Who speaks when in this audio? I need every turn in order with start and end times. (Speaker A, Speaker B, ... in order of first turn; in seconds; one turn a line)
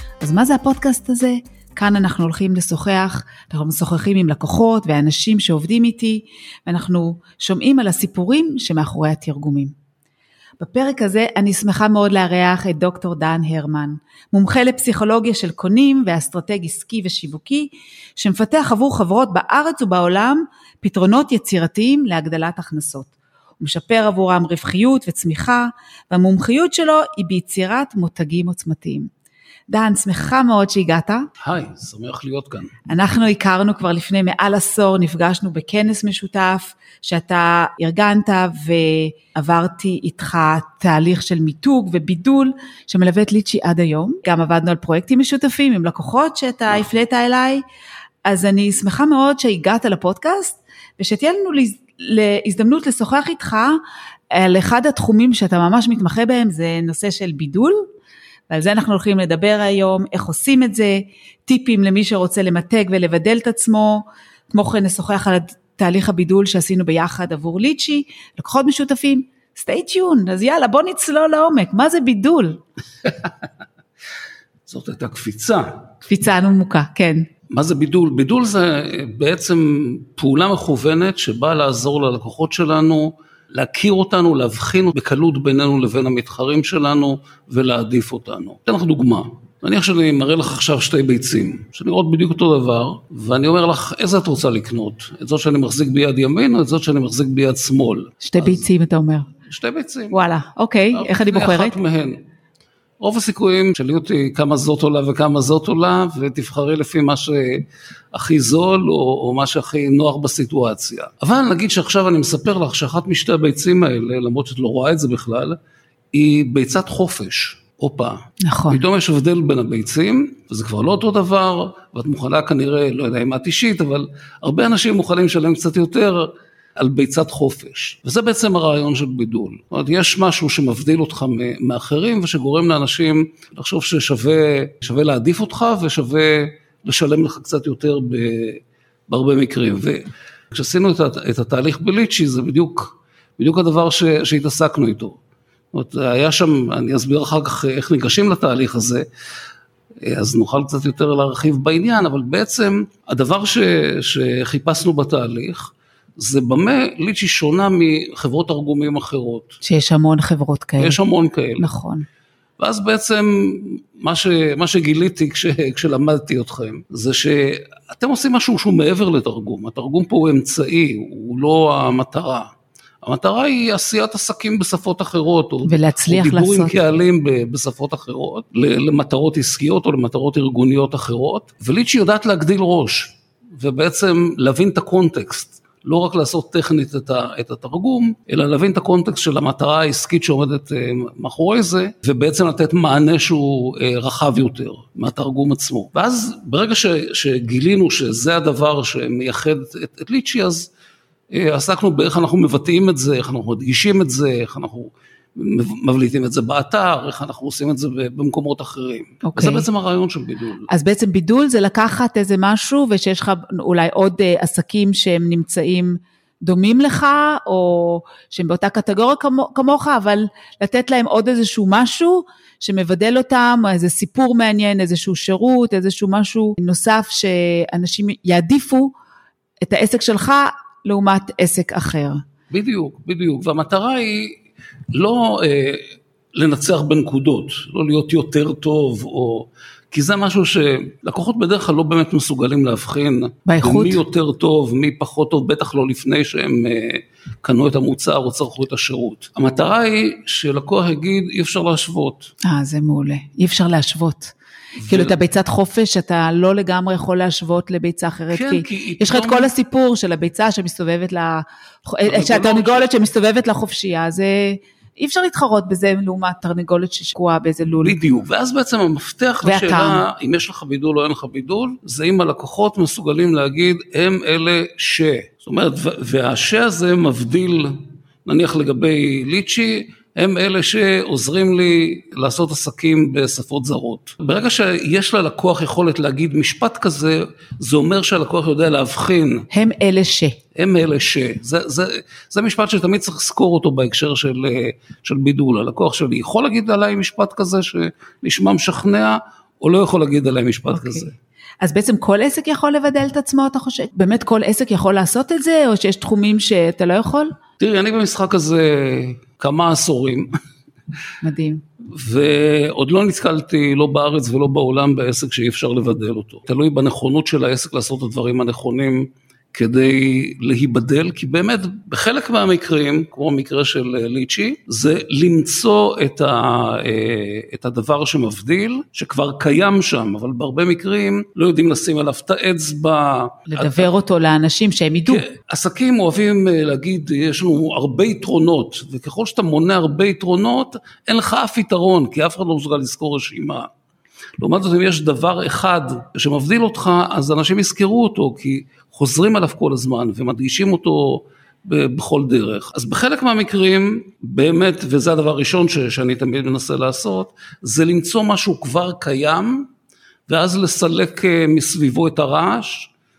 Speaker A: 0.2-9.7
Speaker A: 10.6-29.1
Speaker A: 29.7-31.3
Speaker B: 31.4-32.7
Speaker A: 32.9-47.6
Speaker A: 48.2-53.8
Speaker A: 54.3-57.9
Speaker A: 58.5-72.6
Speaker B: 73.0-73.3
Speaker B: 74.7-75.8
Speaker A: 76.1-77.3
Speaker B: 77.5-98.7
Speaker A: 98.2-99.3
Speaker B: 99.5-100.2
Speaker A: 100.1-101.7
Speaker B: 100.9-102.2
Speaker B: 103.0-115.6
Speaker B: 116.1-118.2
Speaker A: 118.4-118.8
Speaker B: 118.7-145.2
Speaker B: 145.7-149.1
Speaker B: 150.0-159.6
Speaker A: 159.6-161.0
Speaker B: 160.8-161.6
Speaker A: 161.6-162.1
Speaker B: 162.6-172.5
Speaker B: 173.0-200.7
Speaker A: 175.7-176.8
Speaker B: 201.3-210.7
Speaker A: 209.2-209.7
Speaker A: 210.7-228.9
Speaker A: 229.6-232.2
Speaker B: 232.5-234.4
Speaker B: 234.9-252.3
Speaker A: 243.4-244.0
Speaker A: 252.4-254.3
Speaker B: 254.8-255.2
Speaker A: 254.9-267.9
Speaker B: 258.3-259.5
Speaker B: 262.0-262.9
Speaker B: 267.8-289.5
Speaker A: 269.4-270.0
Speaker A: 289.5-290.4
Speaker B: 290.5-301.1
Speaker A: 300.7-301.1
Speaker A: 301.6-307.4
Speaker B: 307.6-310.3
Speaker A: 311.2-311.6
Speaker B: 311.8-333.9
Speaker A: 333.5-335.2
Speaker B: 335.1-343.7
Speaker B: 344.4-359.7
Speaker B: 360.3-362.9